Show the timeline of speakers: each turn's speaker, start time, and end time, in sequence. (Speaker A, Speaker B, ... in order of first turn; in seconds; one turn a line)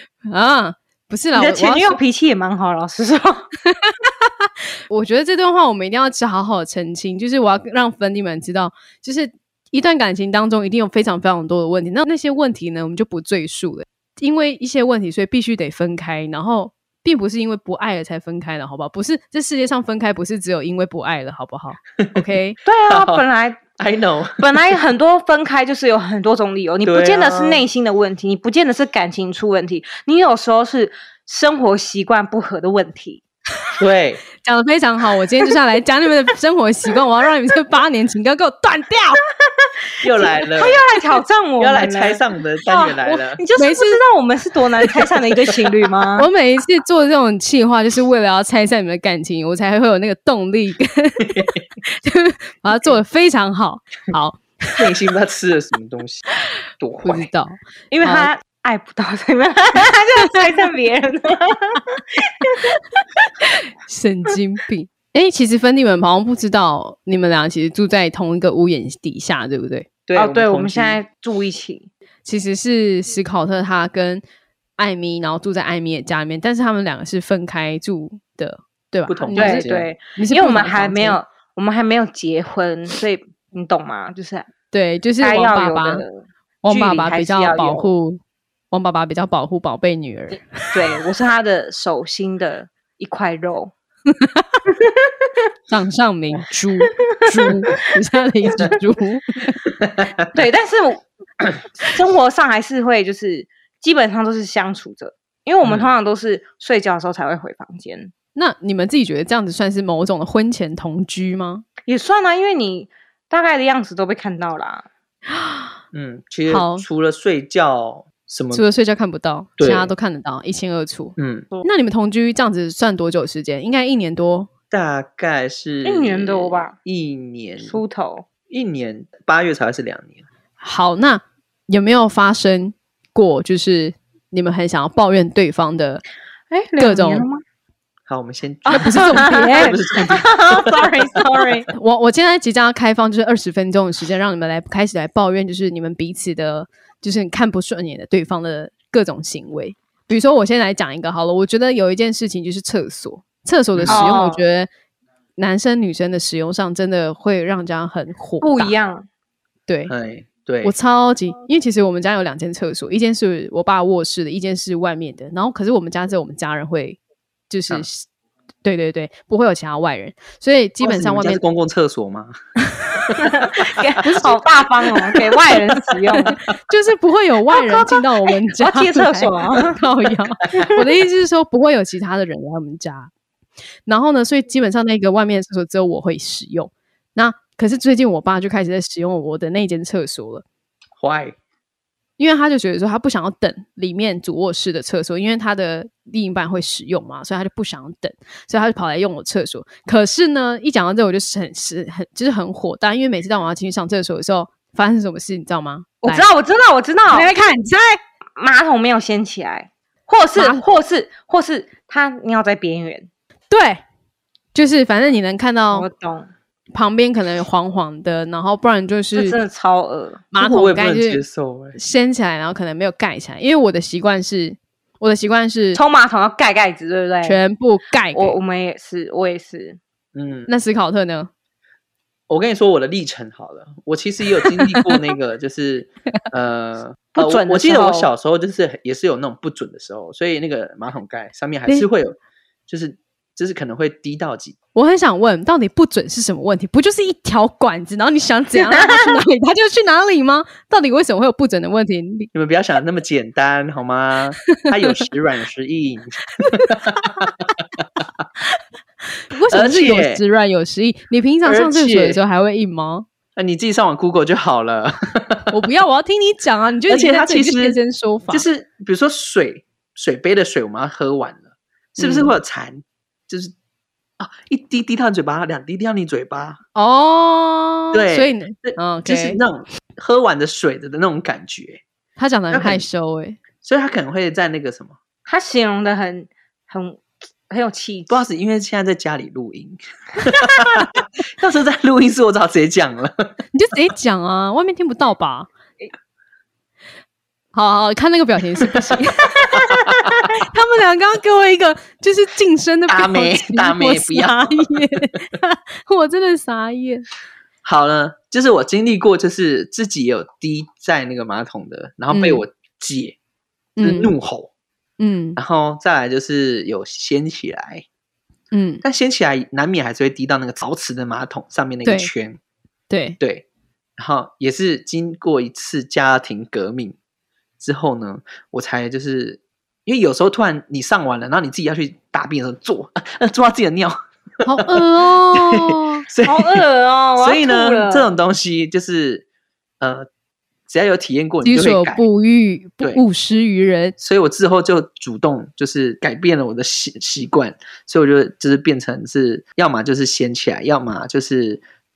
Speaker A: 0.3-2.0
Speaker B: 1.4-3.5
Speaker A: 3.6-4.3
Speaker A: 4.9-22.6
Speaker C: 22.0-22.2
Speaker B: 22.6-23.6
Speaker C: 22.9-23.2
Speaker C: 23.8-24.4
Speaker B: 24.4-33.2
Speaker C: 26.8-27.6
Speaker C: 33.8-34.2
Speaker A: 34.4-39.2
Speaker C: 40.0-40.8
Speaker B: 40.0-46.3
Speaker C: 41.6-43.4
Speaker A: 43.6-44.0
Speaker A: 46.2-54.8
Speaker C: 51.2-51.6
Speaker C: 54.8-56.2
Speaker C: 56.8-57.3
Speaker A: 57.0-58.3
Speaker B: 57.9-62.8
Speaker A: 63.5-69.9
Speaker C: 70.1-71.0
Speaker B: 70.2-71.9
Speaker A: 72.2-74.2
Speaker A: 74.8-81.2
Speaker C: 79.1-79.9
Speaker B: 79.4-84.5
Speaker A: 84.7-86.0
Speaker B: 85.2-87.9
Speaker A: 86.6-88.2
Speaker A: 88.7-90.8
Speaker B: 90.7-93.7
Speaker A: 94.1-94.6
Speaker B: 94.8-95.1
Speaker A: 95.7-99.6
Speaker B: 100.3-101.0
Speaker B: 101.8-108.1
Speaker C: 105.6-105.9
Speaker A: 108.3-111.6
Speaker B: 111.9-114.9
Speaker A: 115.3-115.7
Speaker C: 115.9-118.6
Speaker A: 116.5-116.9
Speaker A: 118.5-124.5
Speaker C: 119.6-119.9
Speaker C: 121.2-121.5
Speaker C: 124.7-127.8
Speaker B: 125.8-126.8
Speaker B: 127.6-128.2
Speaker C: 128.5-130.2
Speaker A: 130.6-136.0
Speaker B: 136.5-137.4
Speaker A: 136.8-137.3
Speaker C: 138.1-141.2
Speaker B: 138.7-141.7
Speaker A: 138.7-139.8
Speaker A: 141.7-154.7
Speaker C: 153.7-154.1
Speaker B: 153.9-154.4
Speaker A: 155.4-158.7
Speaker B: 158.4-159.1
Speaker A: 159.7-159.9
Speaker C: 159.9-160.7
Speaker A: 160.6-168.1
Speaker A: 168.6-171.4
Speaker C: 170.8-172.3
Speaker A: 172.8-173.1
Speaker C: 173.0-174.0
Speaker B: 173.2-176.4
Speaker A: 174.0-174.4
Speaker A: 176.1-183.1
Speaker B: 177.5-179.8
Speaker C: 180.4-180.7
Speaker A: 183.9-190.4
Speaker C: 191.0-191.4
Speaker A: 192.2-206.3
Speaker B: 206.0-207.3
Speaker A: 207.1-208.0
Speaker B: 208.4-213.1
Speaker A: 210.4-210.6
Speaker A: 213.5-213.8
Speaker A: 214.5-215.9
Speaker B: 215.7-216.3
Speaker A: 216.7-219.4
Speaker B: 219.1-220.2
Speaker A: 220.3-221.2
Speaker C: 220.4-221.8
Speaker A: 221.7-225.8
Speaker B: 225.7-227.4
Speaker A: 227.2-228.4
Speaker B: 228.1-229.8
Speaker C: 230.1-230.5
Speaker A: 230.5-231.3
Speaker C: 232.3-242.2
Speaker A: 234.5-235.0
Speaker B: 237.1-238.1
Speaker C: 242.7-244.6
Speaker A: 244.8-252.3
Speaker C: 252.3-258.0
Speaker A: 254.6-254.9
Speaker A: 256.4-257.3
Speaker A: 259.3-263.1
Speaker C: 259.5-260.2
Speaker C: 261.4-262.2
Speaker C: 263.4-265.6
Speaker A: 265.5-268.4
Speaker C: 266.9-267.8
Speaker C: 268.3-271.5
Speaker C: 272.0-273.5
Speaker A: 272.0-272.3
Speaker C: 274.2-276.6
Speaker A: 276.8-279.4
Speaker C: 277.9-281.8
Speaker A: 282.2-283.4
Speaker C: 282.5-282.8
Speaker C: 283.6-285.0
Speaker B: 285.3-288.2
Speaker C: 288.1-293.4
Speaker A: 293.5-295.5
Speaker A: 297.5-299.8
Speaker A: 300.4-307.1
Speaker C: 302.9-305.0
Speaker C: 307.6-313.2
Speaker A: 312.1-312.4
Speaker A: 313.8-314.1
Speaker C: 313.8-314.5
Speaker A: 315.0-315.4
Speaker C: 315.4-317.9
Speaker A: 318.5-318.8
Speaker C: 318.8-322.4
Speaker A: 321.9-322.1
Speaker A: 322.9-323.2
Speaker C: 323.2-323.5
Speaker C: 324.0-327.0
Speaker C: 327.6-336.6
Speaker A: 334.4-336.0
Speaker B: 336.2-338.1
Speaker C: 337.2-339.2
Speaker C: 339.8-340.1
Speaker C: 340.7-342.0
Speaker A: 341.4-344.0
Speaker C: 344.0-351.6